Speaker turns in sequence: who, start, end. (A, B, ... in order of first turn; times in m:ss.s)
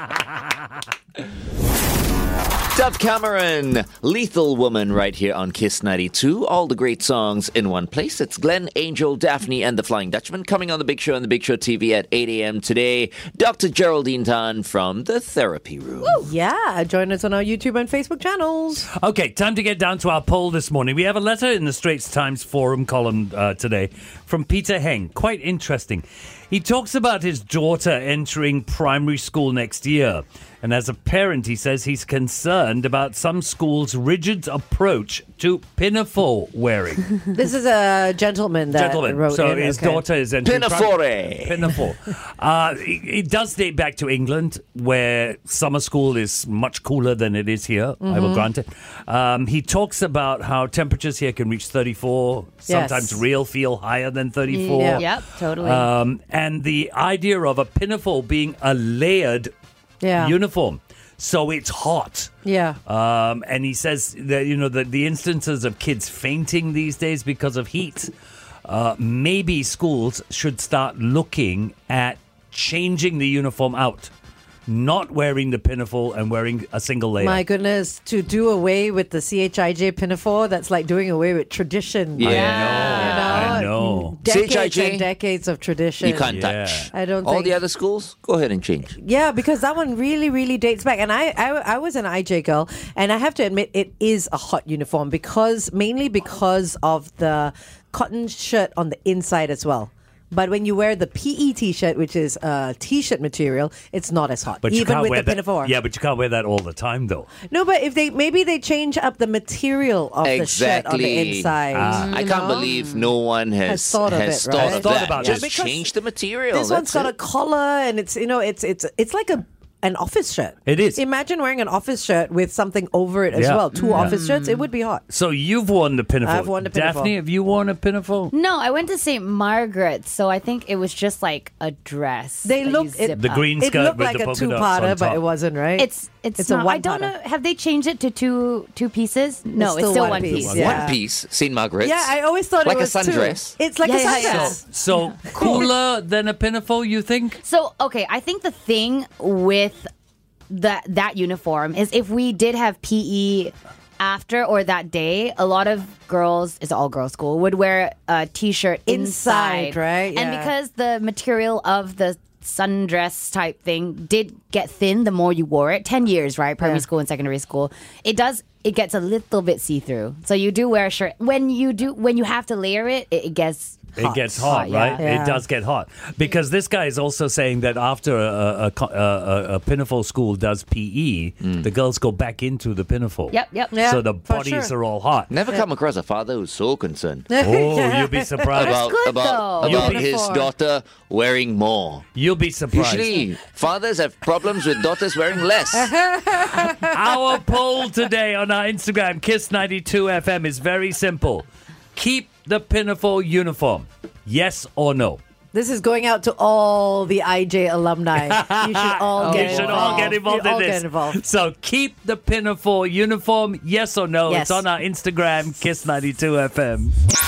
0:02.7-0:16.2 A
0:16.2-0:18.9 B
0:19.0-0:37.1 C
0:37.3-0:40.0 B
0:38.7-0:59.5 C
0:40.4-0:41.7 A
0:48.0-0:48.5 B
0:52.7-0:53.2 B
0:54.5-0:55.9 D
0:54.7-0:55.0 B
1:00.0-1:00.3 B
1:00.2-1:02.3 C
1:02.4-1:02.8 B
1:02.9-1:08.1 C
1:08.6-1:14.1 C
1:14.7-1:17.4 C
1:17.2-1:26.3 B
1:22.2-1:22.8 A
1:22.2-1:24.2 C
1:22.2-1:23.6 D
1:24.2-1:25.0 A
1:26.0-1:28.9 A
1:26.2-1:26.9 C
1:26.9-1:27.6 B
1:29.0-1:45.7 B
1:44.6-1:47.3 C
1:47.5-1:52.1 B
1:50.2-1:51.5 A
1:51.7-1:52.2 C
1:51.9-1:53.1 D
1:52.1-1:57.1 A
1:53.6-1:55.9 B
1:54.5-1:55.6 C
1:56.5-2:05.0 B
2:00.6-2:01.0 C
2:03.3-2:04.2 C
2:03.7-2:04.7 D
2:05.1-2:08.3 C
2:06.2-2:07.1 B
2:08.3-2:13.5 D
2:12.4-2:17.1 B
2:13.2-2:15.2 C
2:15.8-2:20.8 D
2:19.6-2:21.0 B
2:20.2-2:20.8 C
2:20.5-2:22.1 A
2:21.8-2:24.6 B
2:22.6-2:23.5 A
2:23.8-2:25.6 D
2:24.0-2:27.4 C
2:25.3-2:25.7 B
2:27.4-2:29.9 D
2:30.5-2:53.9 D
2:38.8-2:40.5 B
2:54.0-2:55.4 B
2:54.0-3:05.3 C
2:54.4-2:55.0 D
3:01.4-3:01.7 A
3:03.3-3:03.7 D
3:03.7-3:04.7 B
3:05.3-3:07.3 A
3:07.3-3:08.6 B
3:07.4-3:08.9 C
3:08.6-3:12.0 A
3:08.6-3:10.0 D
3:09.6-3:10.0 C
3:09.7-3:10.5 B
3:12.1-3:13.2 C
3:12.7-3:15.9 A
3:15.7-3:17.0 B
3:16.8-3:25.2 C
3:25.5-3:31.2 B
3:28.2-3:36.9 C
3:29.2-3:30.2 D
3:34.3-3:34.6 B